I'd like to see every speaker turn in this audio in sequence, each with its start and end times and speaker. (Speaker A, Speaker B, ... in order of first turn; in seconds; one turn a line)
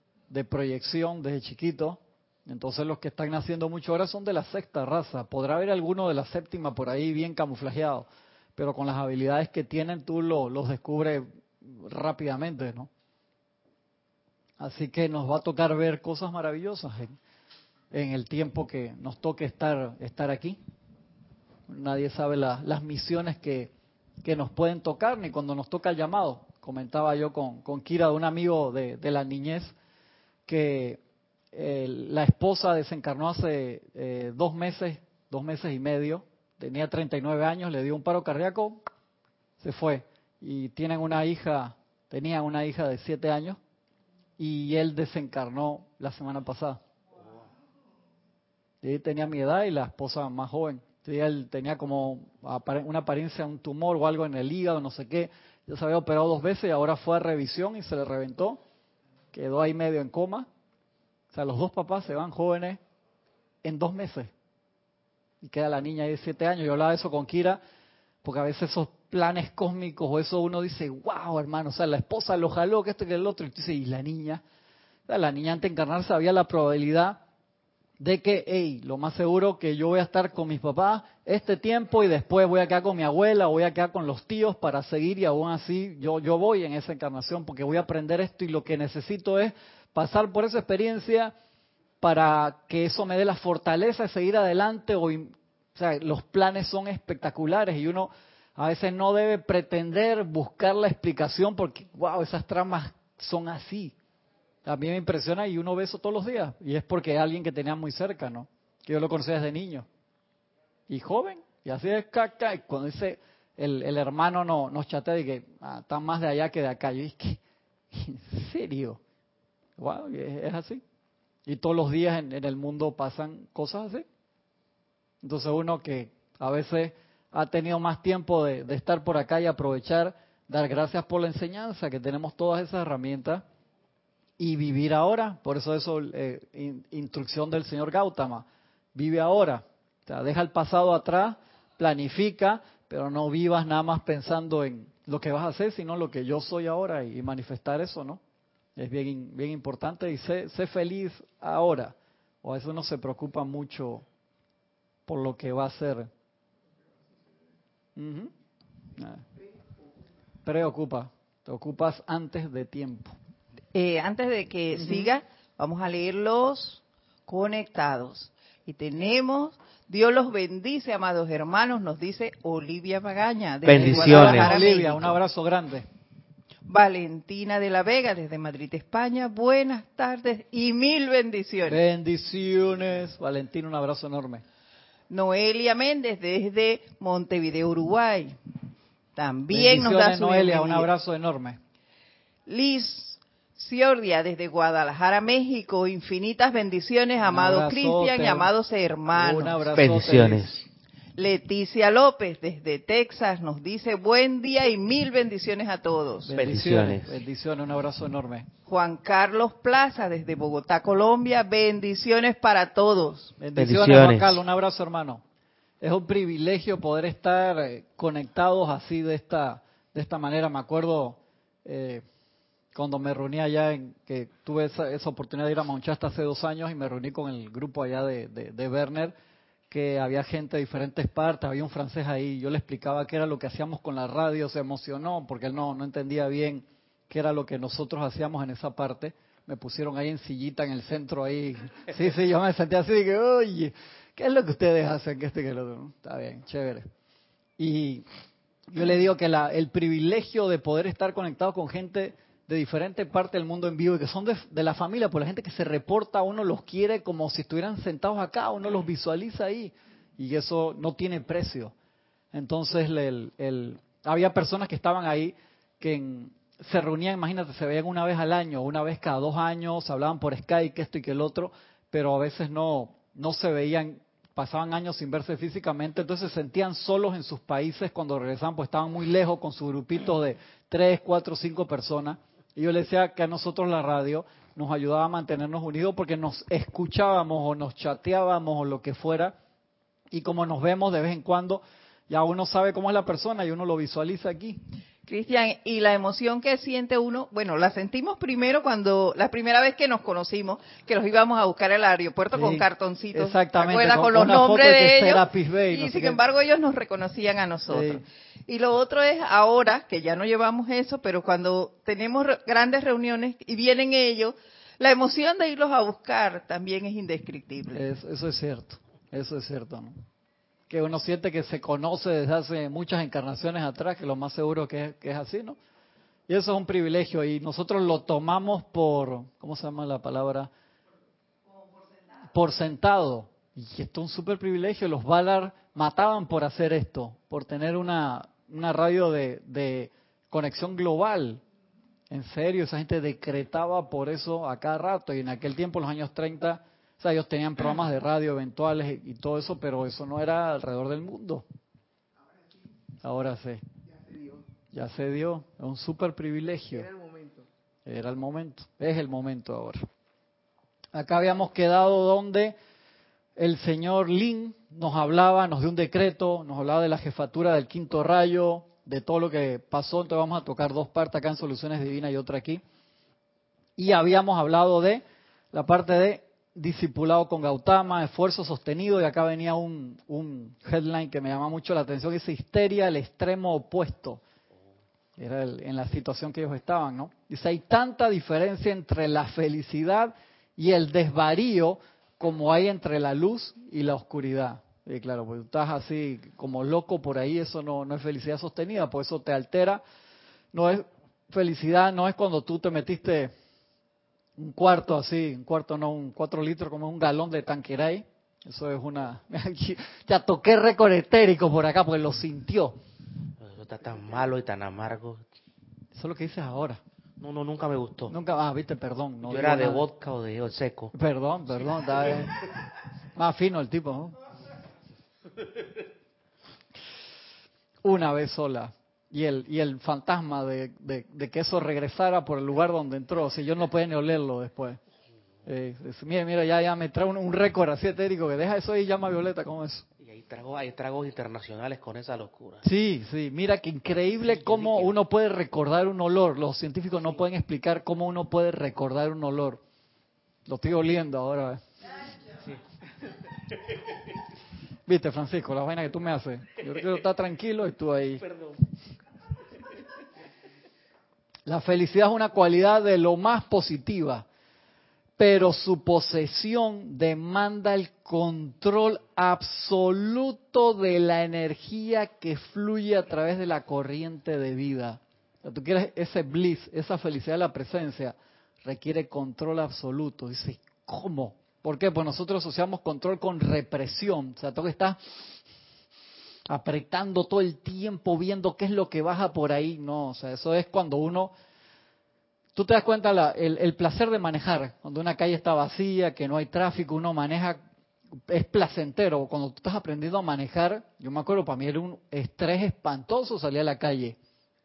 Speaker A: 0.3-12.9
Speaker A: 14.6-17.2
Speaker A: 17.9-20.6
Speaker A: 21.7-23.7
Speaker A: 24.2-29.7
Speaker A: 30.5-31.0
Speaker A: 31.5-38.8
Speaker A: 39.6-43.6
Speaker A: 44.4-46.8
Speaker A: 48.8-58.6
Speaker A: 59.3-60.5
Speaker A: 61.3-62.8
Speaker A: 63.6-64.3
Speaker A: 65.4-67.6
Speaker A: 68.2-74.4
Speaker A: 75.1-77.2
Speaker A: 78.0-91.3
Speaker A: 92.0-103.9
Speaker A: 104.6-109.8
Speaker A: 110.9-117.4
Speaker A: 117.9-119.0
Speaker A: 119.8-120.8
Speaker A: 121.5-124.0
Speaker A: 125.2-133.4
Speaker A: 134.4-148.2
Speaker A: 148.8-154.0
Speaker A: 155.1-156.1
Speaker A: 157.9-158.3
Speaker A: 158.9-159.2
Speaker A: 160.4-163.1
Speaker B: 163.7-175.1
Speaker A: 164.8-165.1
Speaker C: 173.6-174.6
Speaker A: 173.7-175.9
Speaker B: 176.7-181.8
Speaker A: 181.7-184.4
Speaker B: 185.1-188.4
Speaker B: 189.2-190.9
Speaker A: 189.5-191.6
Speaker B: 192.5-199.6
Speaker A: 197.3-198.5
Speaker A: 199.1-200.6
Speaker C: 199.8-200.6
Speaker B: 201.2-206.3
Speaker A: 206.2-208.5
Speaker C: 206.3-207.1
Speaker B: 208.7-213.3
Speaker A: 213.4-215.2
Speaker C: 213.6-214.4
Speaker A: 215.8-222.0
Speaker A: 222.7-229.1
Speaker A: 229.7-246.8
Speaker A: 247.6-248.0
Speaker A: 248.7-261.7
Speaker A: 262.3-289.4
Speaker A: 290.1-294.6
Speaker B: 295.1-317.8
Speaker A: 302.3-306.2
Speaker A: 307.7-308.0
Speaker A: 317.7-319.9
Speaker A: 320.7-325.6
Speaker A: 326.3-330.5
Speaker A: 332.2-341.4
Speaker A: 342.1-351.4
Speaker A: 353.0-353.6
Speaker A: 354.7-357.0
Speaker A: 357.9-359.8
Speaker A: 360.9-362.6
Speaker A: 363.4-372.6
Speaker A: 373.8-384.2
Speaker A: 385.2-399.8
Speaker A: 400.5-403.3
Speaker A: 404.4-412.8
Speaker C: 413.4-415.2
Speaker A: 415.9-416.8
Speaker C: 417.2-418.1
Speaker A: 418.1-419.9
Speaker C: 419.2-420.9
Speaker A: 420.9-422.5
Speaker A: 423.1-424.2
Speaker A: 427.8-434.8
Speaker A: 435.4-439.8
Speaker C: 440.0-442.6
Speaker A: 442.6-449.6
Speaker C: 444.4-444.9
Speaker A: 450.4-451.6
Speaker A: 454.9-458.2
Speaker A: 461.4-464.2
Speaker A: 465.2-485.0
Speaker A: 486.5-491.3
Speaker A: 492.5-497.6
Speaker A: 498.3-504.2